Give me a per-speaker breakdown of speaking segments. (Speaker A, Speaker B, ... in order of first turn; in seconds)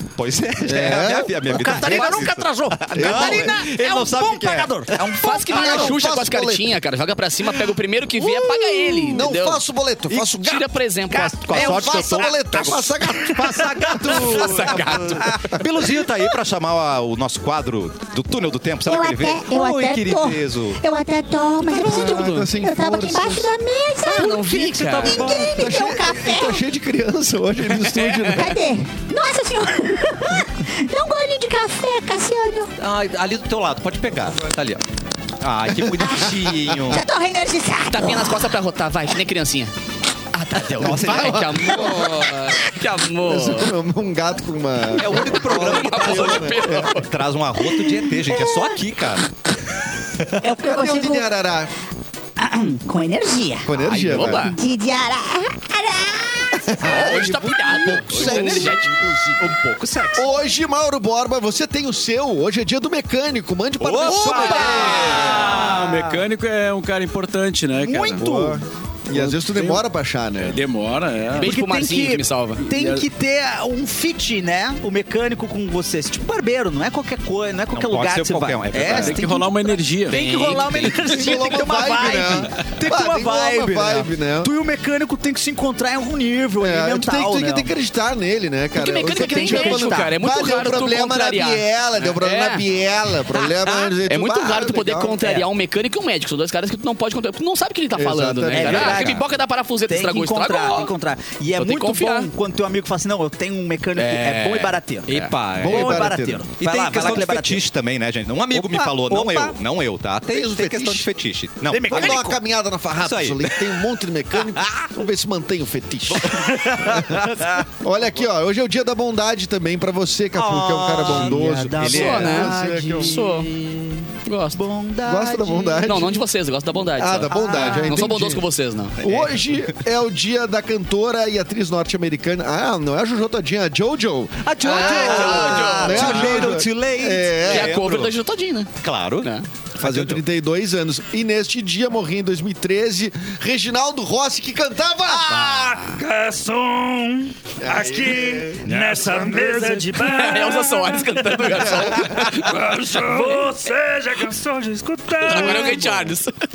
Speaker A: 0.2-5.9, 11.1-20.8, 32.8-34.8, 35.4-37.0, 40.5-41.8, 45.0-49.3, 57.0-58.8, 59.4-60.3, 63.8-66.0, 77.7-79.2, 105.1-112.4, 113.0-113.8, 114.4-114.9, 116.1-117.5, 120.3-122.5, 129.0-129.8, 134.7-138.1, 138.8-140.2, 148.7-149.5
Speaker B: 0.7-2.0, 2.9-3.6, 5.5-6.7, 9.1-10.7, 11.5-13.8, 21.8-23.5, 25.5-28.6, 40.8-42.3, 43.2-47.0, 50.4-51.7, 53.7-54.5, 56.6-59.6, 60.1-65.6, 68.2-70.6, 81.1-84.5, 86.6-95.2, 98.0-99.2, 105.6-106.4, 110.3-111.1, 111.8-123.2, 125.0-126.2, 127.0-128.4, 129.0-137.8, 139.8-145.2, 147.6-148.7, 155.3-155.9
Speaker C: 1.5-5.6, 11.2-15.4, 24.2-25.3, 40.4-41.1, 50.7-51.0, 52.4-53.7, 64.6-66.2, 67.8-68.6, 71.4-87.7, 89.0-90.1, 98.5-99.2, 99.9-107.6, 108.5-109.6, 111.7-112.4, 121.0-125.9, 127.3-128.0, 134.6-136.4, 145.1-145.8
Speaker D: 5.2-9.6, 10.2-11.5, 14.1-15.4, 22.2-22.4, 24.4-25.3, 27.9-28.3, 37.9-39.7, 40.8-43.7, 45.1-47.1, 53.8-54.6, 56.8-58.8, 64.0-65.4, 71.3-72.6, 88.8-92.6, 94.1-100.9, 101.6-102.3, 104.0-105.3, 121.8-123.5, 124.3-124.6, 125.8-129.0, 134.6-136.5, 137.5-139.5, 149.9-153.7, 155.2-156.3
Speaker E: 18.9-26.6, 28.3-32.7, 36.9-38.5, 50.5-51.2, 52.9-53.7, 54.3-56.6
Speaker F: 24.1-25.7, 145.4-156.0
Speaker G: 65.2-68.3, 69.1-69.8, 70.4-71.5, 72.6-73.1, 78.9-81.1